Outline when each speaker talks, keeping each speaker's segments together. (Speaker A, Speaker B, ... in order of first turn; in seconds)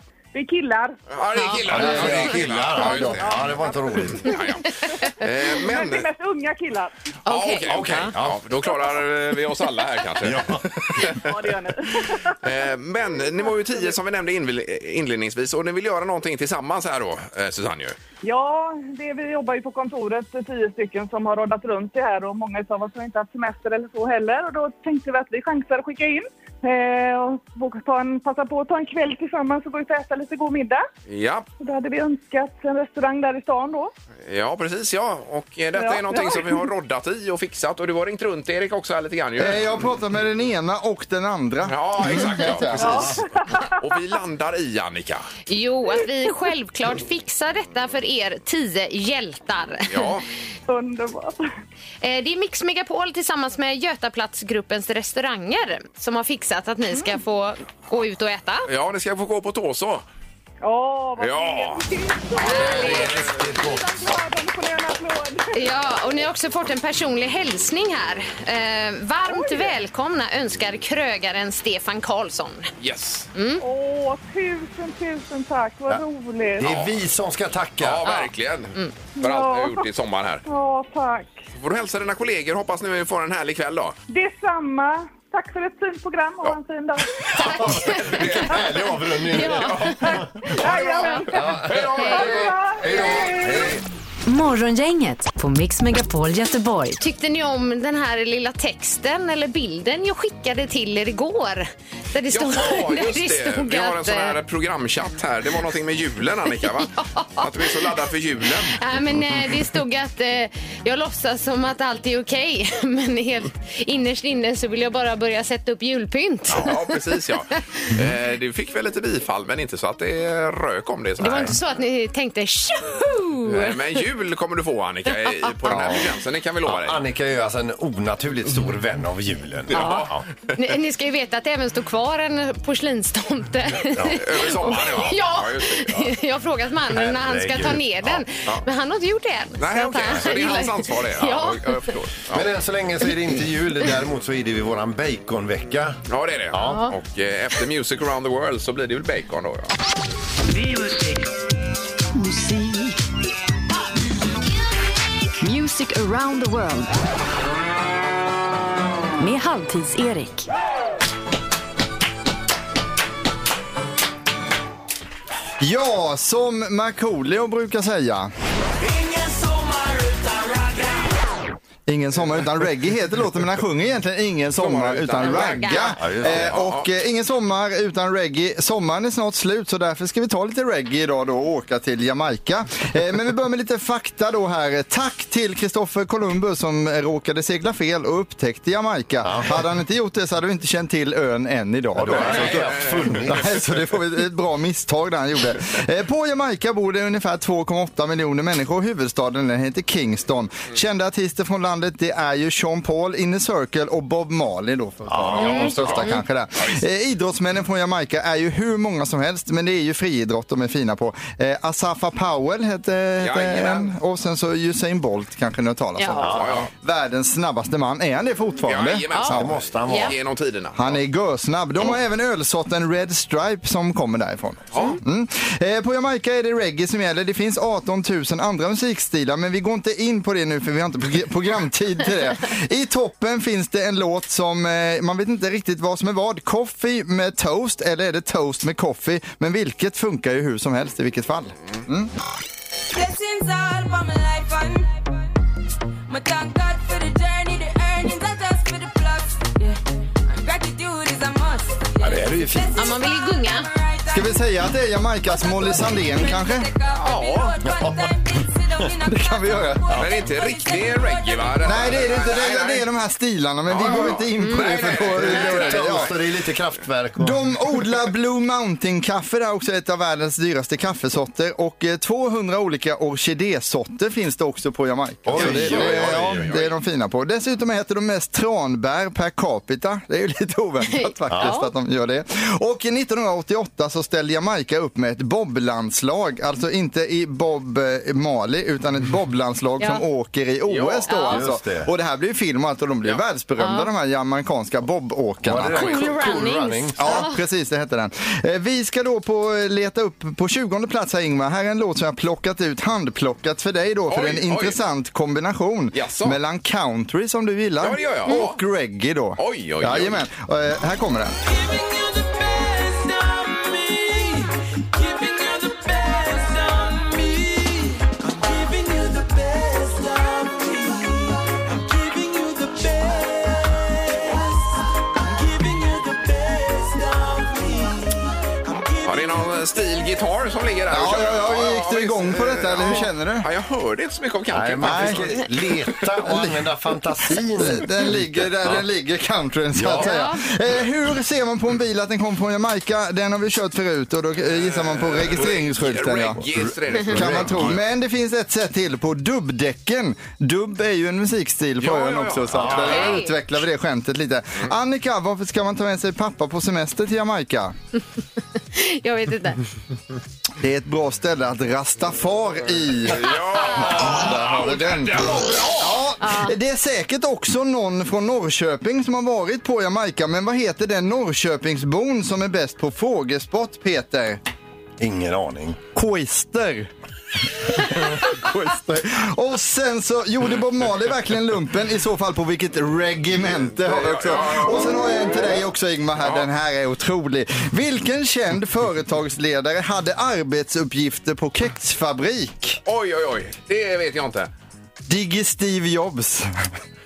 Speaker A: 0.3-1.0, 2.8-6.9, 11.0-12.4, 13.4-13.9, 18.2-30.9, 31.6-33.9, 35.8-36.7, 42.8-43.8, 50.7-51.5, 60.6-65.6, 69.3-69.7, 73.6-76.7, 79.2-79.8, 80.5-81.4, 84.1-87.6, 90.0-93.7
Speaker B: 1.1-6.1, 7.3-11.3, 12.4-18.0, 31.1-31.4, 34.2-39.8, 41.6-45.2, 49.9-50.2, 58.7-60.0, 61.2-61.8, 72.8-73.3, 76.6-77.0, 77.8-80.4, 81.5-84.0, 87.5-88.6, 90.5-93.2, 102.3-108.8, 116.5-121.6, 123.5-127.0, 129.7-130.2, 134.2-136.1, 139.6-142.5, 146.1-149.7, 174.6-176.9, 192.1-193.3, 205.4-206.8, 213.2-213.9, 216.2-216.7, 218.6-221.0, 224.7-225.0, 257.0-257.5, 259.9-262.9, 263.7-266.1, 275.3-276.8, 290.6-291.1, 304.1-304.8, 305.9-306.4, 307.8-308.6, 309.4-310.2, 328.9-335.4, 344.5-347.8, 351.8-353.2, 363.0-365.9, 383.8-385.0, 386.2-386.5, 392.8-394.5
Speaker C: 1.3-1.9, 7.2-8.1, 45.5-50.2, 52.0-58.7, 62.4-63.1, 65.5-72.7, 73.3-73.6, 78.0-78.9, 87.4-88.4, 89.3-90.0, 91.9-92.3, 97.0-104.3, 107.0-107.8, 108.7-117.0, 121.2-124.0, 125.1-125.5, 129.7-141.9, 146.7-146.9, 175.2-175.9, 205.4-206.2, 216.0-216.3, 219.1-220.1, 252.8-253.7, 264.4-264.6, 280.9-281.7, 291.1-291.4, 293.6-293.9, 295.7-297.4, 340.0-340.4, 352.9-353.3, 358.7-359.6, 363.2-364.1, 366.2-366.5
Speaker D: 1.6-4.3, 7.7-8.5, 10.2-11.1, 62.4-64.2, 76.6-78.1, 87.4-90.5, 91.3-93.8, 125.7-126.0, 126.6-130.2, 133.9-134.7, 136.9-138.2, 140.0-140.5, 142.3-146.0, 146.5-146.9, 176.0-176.6, 189.2-189.6, 191.9-193.6, 205.1-206.0, 216.2-216.6, 219.3-220.2, 252.0-252.9, 257.6-258.2, 259.9-260.2, 265.2-267.5, 275.2-276.5, 281.3-281.6, 291.3-291.9, 295.4-297.2, 334.5-338.8, 339.7-340.1, 346.5-347.8, 352.5-353.1, 375.0-375.8
Speaker E: 1.7-2.1, 39.4-43.1, 165.6-168.3, 171.9-219.1, 220.8-242.1, 254.1-256.7, 259.0-259.9, 261.6-266.1, 267.2-296.2, 297.0-311.3, 330.9-333.5, 334.8-335.3, 336.2-336.7, 337.3-346.4, 347.1-357.7, 360.6-365.3, 365.8-374.4, 375.9-376.9, 377.6-392.8, 395.1-396.5
Speaker F: 94.2-97.0, 152.1-152.9, 155.4-156.9, 159.2-160.5
Speaker G: 242.9-245.1, 246.1-262.4